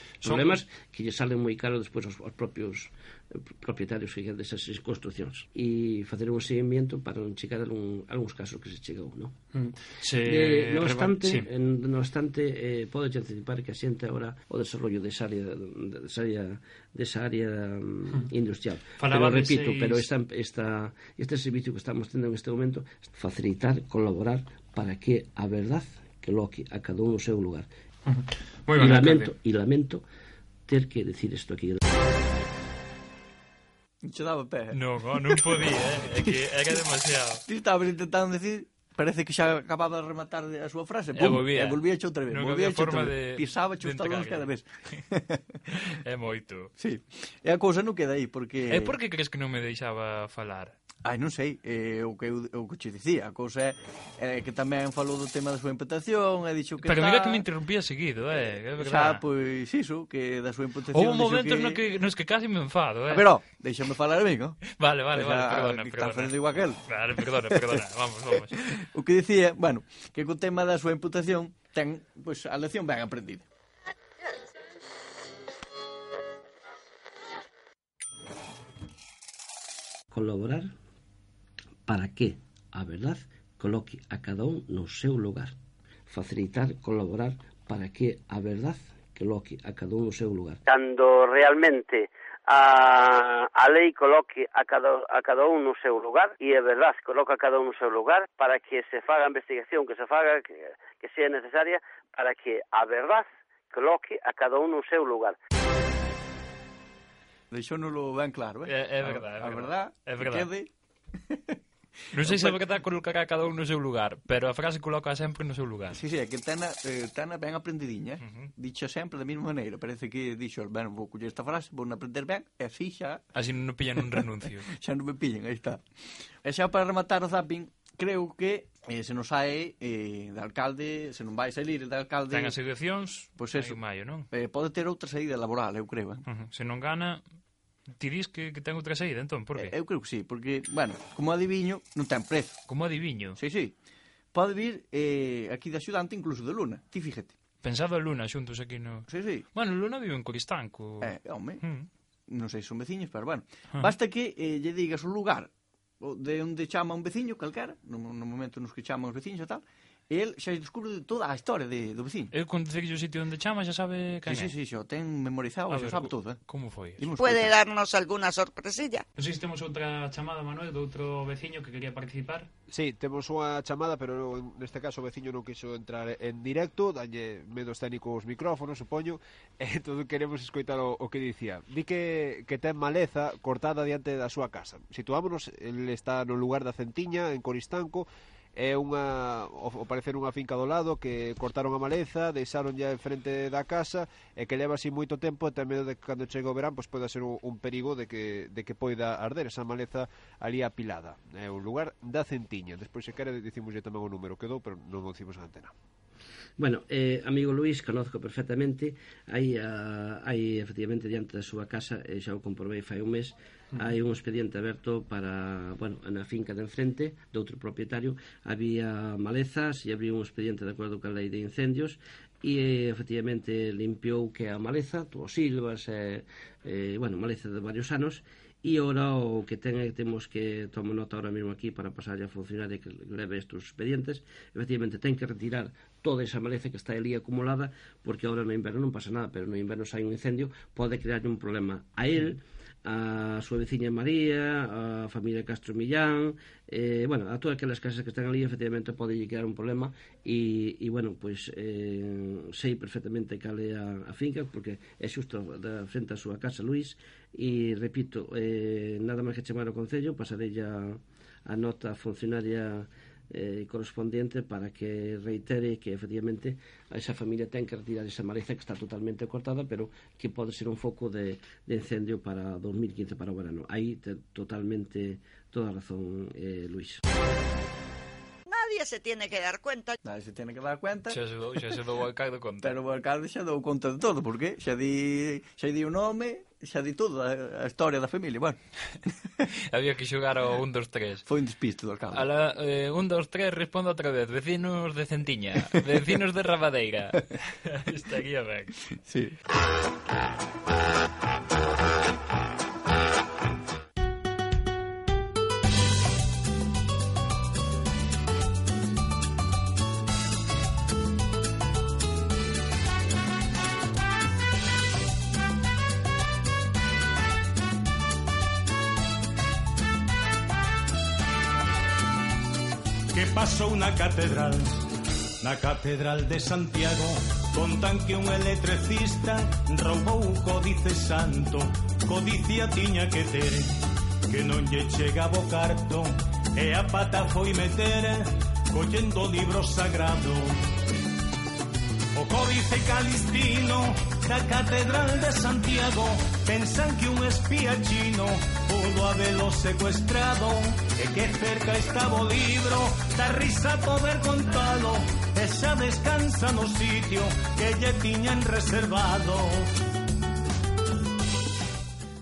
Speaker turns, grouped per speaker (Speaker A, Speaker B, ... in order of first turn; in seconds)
Speaker A: 0.2-9.3, 10.2-27.7, 28.8-30.0, 30.7-31.8, 80.1-80.7, 81.9-85.5, 86.1-90.6, 206.6-277.0
Speaker B: 0.2-0.6, 9.5-11.5, 19.0-20.0, 28.1-29.3, 34.7-37.4, 41.1-44.5, 45.7-46.7, 48.7-50.7, 56.8-59.2, 60.9-63.3, 64.7-66.3, 66.8-68.7, 108.7-110.5, 112.1-116.0, 118.2-118.5, 123.3-124.7, 132.3-134.3, 136.3-137.2, 137.9-139.7, 142.7-143.4, 147.6-151.9, 162.3-164.5, 165.7-167.1, 169.2-172.5, 281.1-282.8, 289.5-291.2, 292.1-298.9
Speaker C: 34.0-35.6, 36.2-36.7, 37.4-45.6, 46.8-48.9, 51.0-57.5, 58.7-61.8, 63.1-67.8, 68.3-73.4, 107.5-110.7, 111.2-111.6, 112.1-112.6, 115.9-123.2, 124.1-125.8, 126.4-132.6, 133.4-133.8, 134.3-136.2, 139.6-142.6, 143.3-143.8, 144.3-147.3, 149.1-149.5, 151.0-151.6, 152.3-162.3, 164.3-166.4, 167.0-167.5, 280.0-281.2, 282.6-288.6, 291.2-292.3, 299.1-299.4
Speaker D: 90.7-105.3
Speaker E: 167.2-169.0, 278.4-280.0
Speaker F: 172.7-205.7
Speaker G: 323.1-324.9, 325.4-340.6, 342.1-359.7